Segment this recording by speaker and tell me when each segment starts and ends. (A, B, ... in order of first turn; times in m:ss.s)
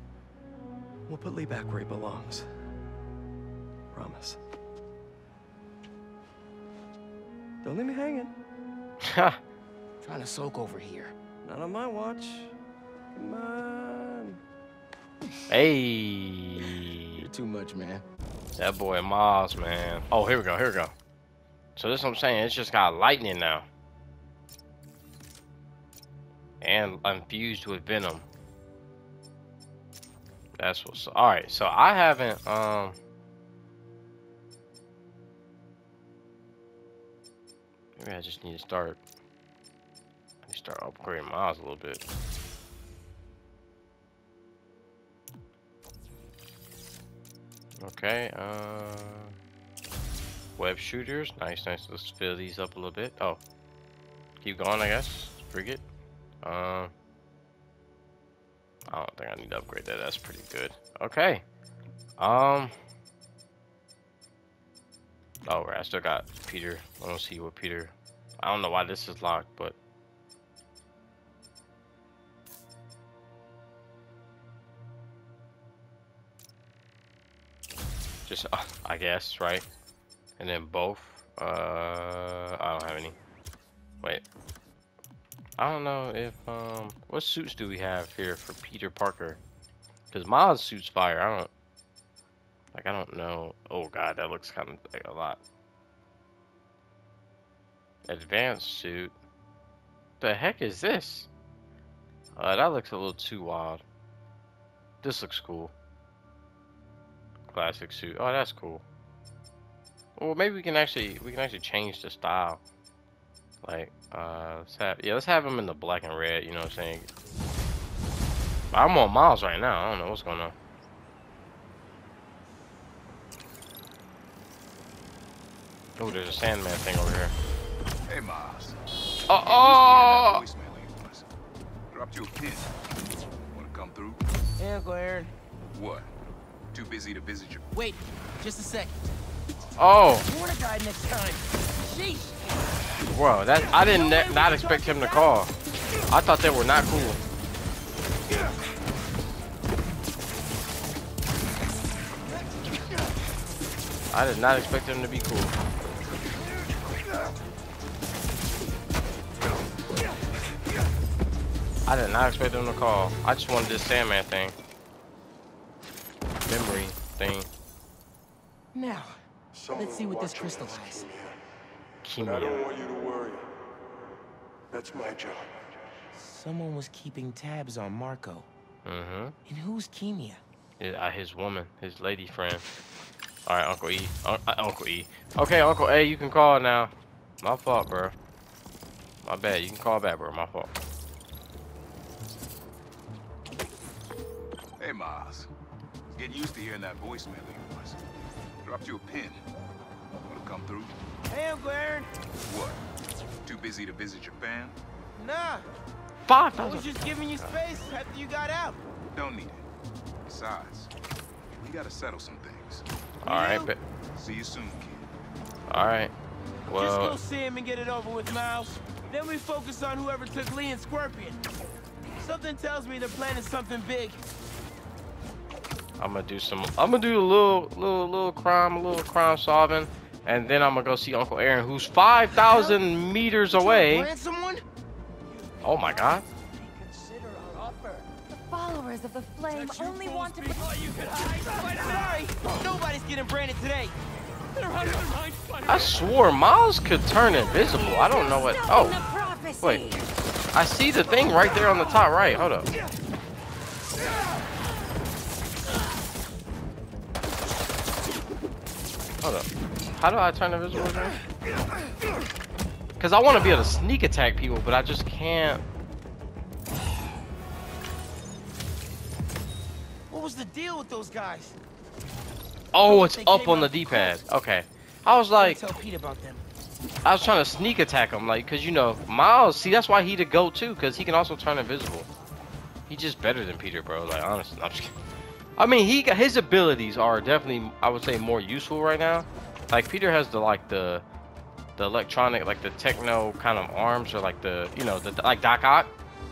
0:01.1-0:02.5 A
0:03.9-0:04.4 A
0:07.6-0:08.3 A
0:09.0-0:09.4 B
0:10.0-0:11.1 C
0:11.4-0:12.5 A
0:13.1-0:14.4 A
0:15.5-0:17.3 B
0:17.2-0:18.0 C
0:18.6-0:20.9 B
0:21.8-0:23.6 B
0:26.6-0:28.2 B
0:30.6-0:33.0 B
0:38.0-0:39.0 B
0:40.4-0:42.0 B
0:47.8-0:49.3 B
0:50.6-0:53.4 B
0:54.4-0:55.8 B
0:56.4-0:56.9 B
0:58.9-1:01.4 B
1:02.2-1:02.7 B
1:05.4-1:09.7 B
1:18.3-1:19.6 B
1:20.4-1:23.1 B
1:25.6-1:29.4 B
1:30.1-1:31.5 B
1:32.7-1:35.4 B
1:38.1-1:39.1 B
1:40.2-1:41.3 B
1:42.4-1:43.8 B
1:45.0-1:45.7 B
1:47.5-1:48.8 B
1:50.2-1:52.6 B
1:53.6-1:57.1 B
1:58.7-2:00.5 B
2:06.0-2:07.3 B
2:08.1-2:08.7 D
2:09.3-2:10.4 B
2:09.4-2:11.2 D
2:11.9-2:12.7 D
2:13.5-2:14.2 D
2:14.6-2:15.3 E
2:15.7-2:16.1 D
2:16.7-2:17.6 D
2:17.7-2:19.0 E
2:19.8-2:20.2 B
2:20.2-2:22.4 E
2:23.1-2:25.5 B
2:23.7-2:25.3 E
2:26.1-2:27.2 B
2:34.1-2:35.6 B
2:41.8-2:44.5 B
2:46.5-2:47.5 B
2:48.7-2:51.1 C
2:49.6-2:51.4 F
2:52.0-2:52.7 B
2:52.2-2:53.5 F
2:54.7-2:55.6 F
2:56.1-2:58.5 C
2:58.8-2:59.3 B
2:59.5-3:00.4 C
3:00.8-3:02.6 B
3:03.4-3:08.1 B
3:09.2-3:10.7 B
3:14.8-3:15.5 D
3:16.1-3:18.0 D
3:18.6-3:19.4 D
3:20.2-3:20.9 D
3:21.3-3:22.1 E
3:22.4-3:22.8 D
3:23.4-3:24.8 D
3:25.2-3:25.6 E
3:26.2-3:27.5 B
3:26.6-3:28.8 E
3:29.1-3:29.6 D
3:30.2-3:30.9 D
3:31.5-3:35.0 D
3:33.2-3:33.8 B
3:35.7-3:36.1 B
3:36.7-3:41.4 E
3:36.7-3:37.2 B
3:42.2-3:44.2 E
3:46.0-3:54.1 B
3:52.3-3:52.8 E
3:53.5-3:54.6 E
3:55.6-3:56.2 B
3:56.8-3:57.7 C
3:58.3-4:00.6 G
4:01.5-4:03.9 E
4:05.7-4:09.0 B
4:07.8-4:10.0 G
4:09.6-4:10.0 B
4:10.5-4:12.7 B
4:19.2-4:21.2 B
4:23.0-4:25.6 B
4:30.1-4:31.6 E
4:32.7-4:35.6 B
4:32.7-4:34.2 E
4:35.4-4:36.4 E
4:37.0-4:42.1 B
4:42.9-4:44.9 B
4:45.6-4:51.0 B
4:51.8-4:55.9 B